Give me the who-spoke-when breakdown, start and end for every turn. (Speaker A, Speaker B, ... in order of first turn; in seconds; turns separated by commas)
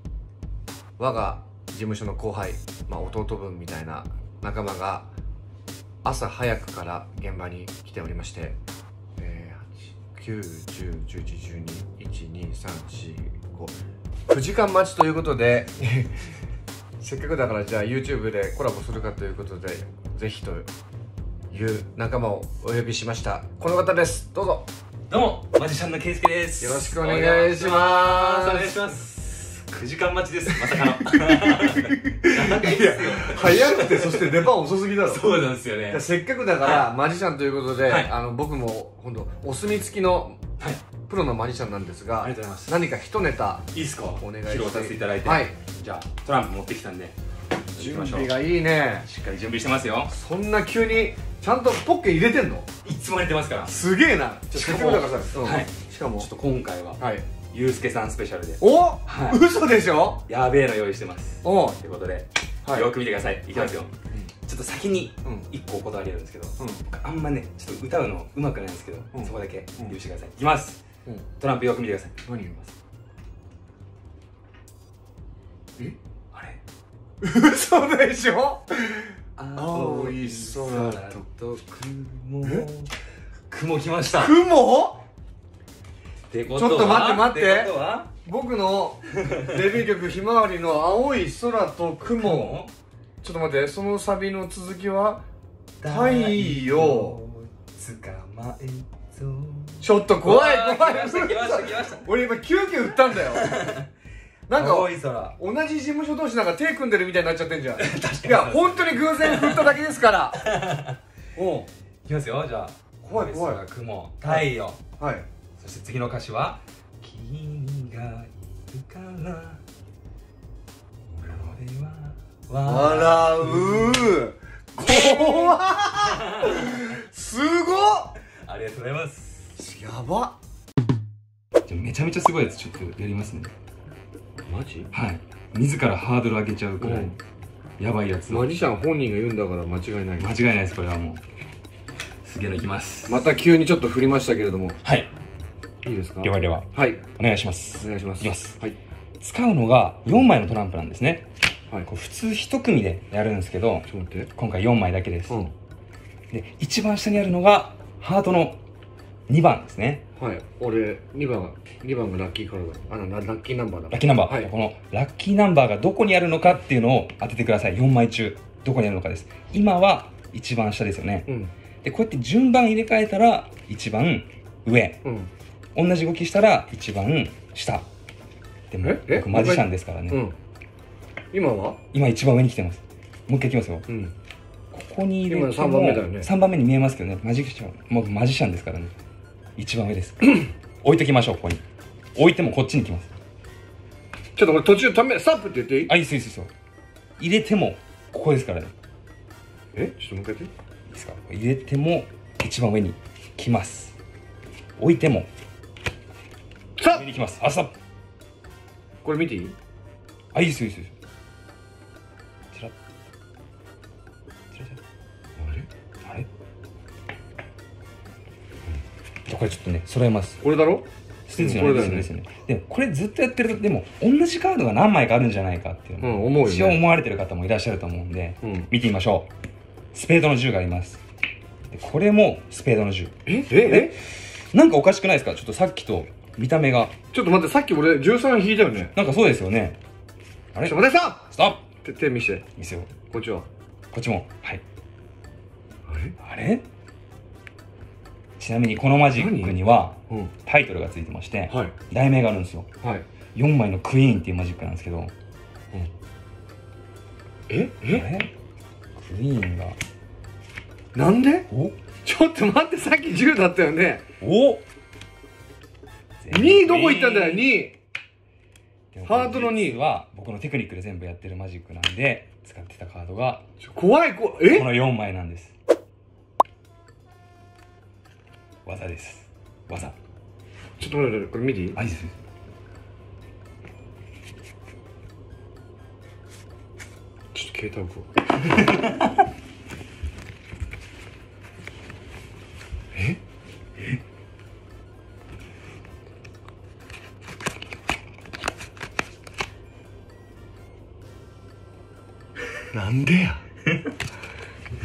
Speaker A: 1.0-5.1, Speaker A: 6.0-8.6, Speaker A: 9.2-13.8, Speaker A: 14.3-16.1, Speaker A: 17.0-20.7, Speaker A: 21.5-24.7, Speaker B: 25.1-36.0, Speaker A: 26.6-28.9, Speaker A: 30.6-35.2, Speaker A: 35.9-40.4, Speaker A: 41.1-45.5, Speaker B: 42.2-42.8, Speaker B: 43.7-47.2, Speaker B: 47.7-48.4, Speaker A: 47.8-49.1, Speaker B: 49.0-50.1, Speaker A: 50.1-52.7, Speaker B: 52.8-53.7, Speaker A: 53.7-56.3, Speaker B: 54.5-59.4, Speaker A: 57.0-57.3, Speaker A: 58.6-60.2, Speaker B: 60.3-63.9, Speaker A: 61.4-61.8, Speaker A: 62.6-62.9, Speaker A: 63.5-64.3, Speaker B: 64.5-70.8, Speaker A: 65.2-65.5, Speaker A: 66.6-66.8, Speaker A: 69.1-70.0, Speaker B: 71.4-72.2, Speaker A: 72.2-72.6, Speaker B: 76.3-76.6, Speaker A: 77.2-81.2, Speaker B: 79.4-82.9, Speaker B: 83.5-84.3, Speaker A: 84.1-85.0, Speaker B: 86.3-88.1, Speaker A: 86.5-92.6, Speaker B: 89.1-89.8, Speaker B: 92.0-92.7, Speaker A: 93.2-95.2, Speaker B: 95.8-102.1, Speaker A: 95.8-97.2, Speaker A: 99.8-103.5, Speaker B: 103.1-103.9, Speaker A: 104.5-110.5, Speaker B: 104.6-105.4, Speaker B: 107.8-109.8, Speaker B: 110.4-111.0, Speaker A: 111.4-111.7, Speaker B: 112.1-114.8, Speaker A: 113.1-113.6, Speaker A: 114.2-115.3, Speaker B: 115.6-119.6, Speaker B: 121.1-124.2, Speaker A: 122.7-128.1, Speaker B: 124.8-126.9, Speaker B: 128.4-129.6, Speaker A: 129.6-130.3, Speaker B: 131.7-133.5, Speaker A: 134.5-134.9, Speaker B: 134.9-137.2, Speaker A: 136.8-137.2, Speaker B: 137.8-138.5, Speaker A: 138.3-140.3, Speaker B: 140.2-141.2, Speaker B: 142.2-143.3, Speaker A: 143.1-144.8, Speaker A: 145.8-147.0, Speaker B: 146.2-148.6, Speaker A: 147.8-148.8, Speaker B: 149.2-151.3, Speaker B: 151.9-155.4, Speaker A: 153.9-154.3, Speaker B: 156.3-158.6, Speaker B: 159.3-160.0, Speaker A: 160.2-164.5, Speaker B: 163.9-171.3, Speaker A: 171.3-171.5, Speaker B: 171.8-175.0, Speaker A: 175.0-175.3, Speaker B: 175.8-177.9, Speaker B: 178.7-180.2, Speaker A: 178.8-180.3, Speaker A: 181.3-181.8, Speaker B: 181.9-183.9, Speaker A: 183.9-184.1, Speaker B: 184.7-188.9, Speaker A: 185.3-186.3, Speaker B: 189.6-191.6, Speaker B: 192.2-193.1, Speaker A: 194.4-195.9, Speaker B: 195.9-196.5, Speaker B: 197.2-198.7, Speaker A: 199.8-200.5, Speaker B: 200.9-203.9, Speaker B: 204.8-205.3, Speaker A: 206.8-207.1, Speaker B: 206.9-207.7, Speaker A: 209.0-209.6, Speaker B: 210.3-210.9, Speaker B: 214.5-214.8, Speaker A: 215.4-215.7, Speaker B: 219.3-220.4, Speaker A: 220.4-222.1, Speaker B: 221.3-229.3, Speaker A: 226.0-226.8, Speaker A: 228.4-228.7, Speaker B: 229.9-231.0, Speaker B: 231.7-236.9, Speaker A: 233.3-234.0, Speaker A: 237.1-238.9, Speaker B: 238.9-239.8, Speaker B: 240.5-241.6, Speaker A: 240.6-241.2, Speaker A: 241.8-242.4, Speaker B: 242.6-242.9, Speaker A: 243.1-243.5, Speaker B: 243.9-244.6, Speaker A: 245.9-246.2, Speaker B: 246.2-246.6, Speaker B: 248.4-252.7, Speaker A: 249.1-249.6, Speaker A: 251.5-251.7, Speaker B: 253.3-255.1, Speaker A: 257.5-258.1, Speaker B: 257.9-258.3, Speaker B: 259.0-259.8, Speaker A: 260.9-261.5, Speaker B: 261.5-261.8, Speaker A: 262.0-264.1, Speaker B: 264.2-264.6, Speaker B: 266.2-267.6, Speaker A: 266.3-267.8, Speaker B: 268.9-273.4, Speaker A: 269.1-269.8, Speaker A: 273.6-274.7, Speaker B: 274.4-275.5, Speaker B: 278.6-280.0, Speaker A: 280.8-281.8, Speaker B: 281.8-282.1, Speaker A: 287.3-288.2, Speaker B: 288.6-289.1, Speaker A: 292.9-293.2, Speaker A: 302.7-303.4